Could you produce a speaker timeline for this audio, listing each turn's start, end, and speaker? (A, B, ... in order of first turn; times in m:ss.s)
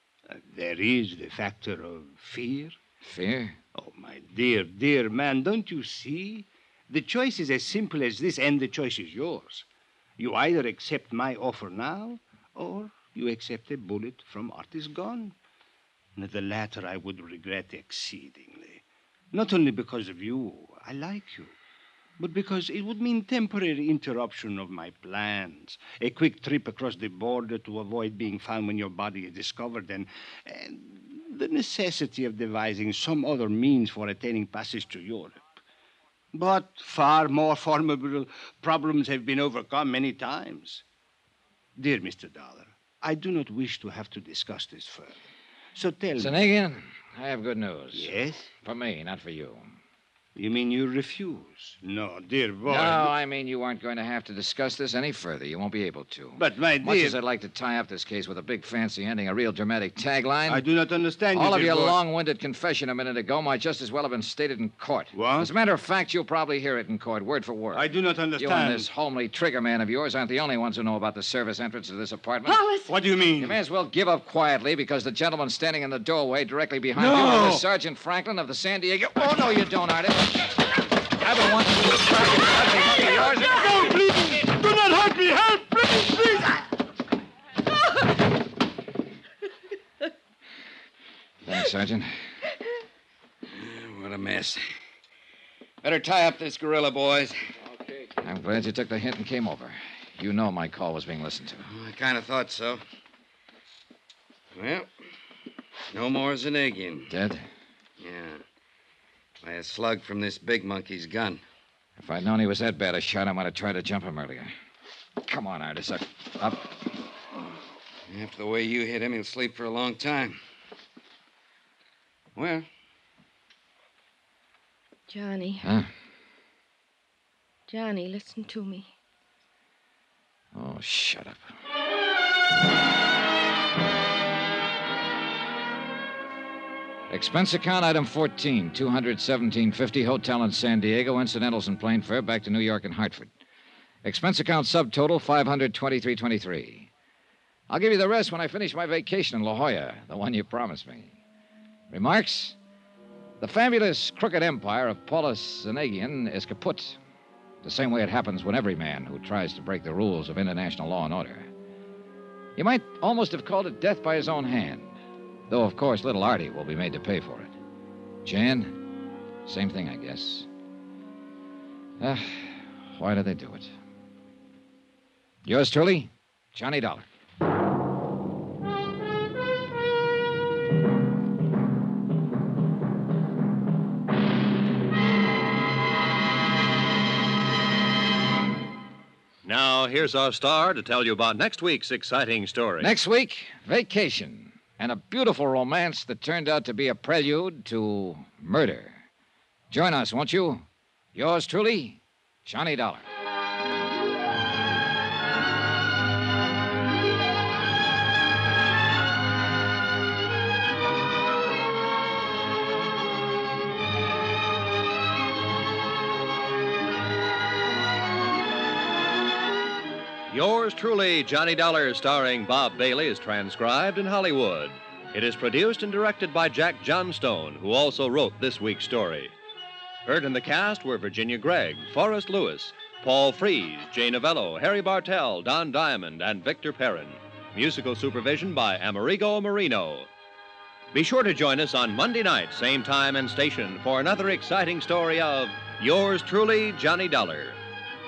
0:00.3-0:02.8 A
0:03.0-0:03.6 B
0:03.8-0:09.6 A
0:10.2-0:15.4 A
0:16.2-0:21.6 A
0:22.2-0:35.4 A
0:36.3-0:40.8 A
0:41.8-0:45.2 A
0:45.8-0:46.5 A
0:46.2-0:48.1 B
0:47.9-0:48.5 A
0:48.6-0:49.8 B
0:50.4-0:53.2 A
0:52.7-1:00.6 B
0:56.4-0:57.2 A
1:00.5-1:02.0 A
1:01.3-1:07.8 B
1:05.1-1:05.5 A
1:07.7-1:08.9 A
1:08.4-1:12.6 B
1:12.5-1:12.9 C
1:12.9-1:13.6 A
1:13.4-1:20.4 B
1:17.0-1:17.6 A
1:21.2-1:23.8 B
1:23.5-1:26.6 A
1:31.4-1:32.1 B
1:33.5-1:34.6 D
1:35.8-1:37.4 D
1:38.2-1:41.7 B
1:41.6-1:42.8 D
1:44.6-1:44.9 D
1:45.9-1:47.1 D
1:47.1-1:47.4 B
1:48.0-1:48.4 D
1:49.4-1:51.4 D
1:52.0-1:54.5 B
1:55.2-1:56.7 B
1:58.1-2:00.4 D
2:02.4-2:02.7 D
2:05.1-2:05.7 C
2:05.6-2:05.9 B
2:07.7-2:08.9 C
2:10.5-2:11.4 B
2:17.1-2:23.3 B
2:24.0-2:26.9 B
2:27.7-2:31.2 B
2:31.9-2:32.6 B
2:33.4-2:37.0 B
2:37.6-2:41.5 B
2:42.6-2:45.0 B
2:45.5-2:47.6 B
2:48.2-2:48.8 B
2:49.5-2:50.5 B
2:52.0-2:53.7 B
2:55.4-2:57.1 B
3:09.4-3:12.9 E
3:12.8-3:19.1 B
3:19.7-3:23.1 B
3:40.3-3:49.3 E
3:50.1-4:00.1 E
4:00.9-4:07.6 E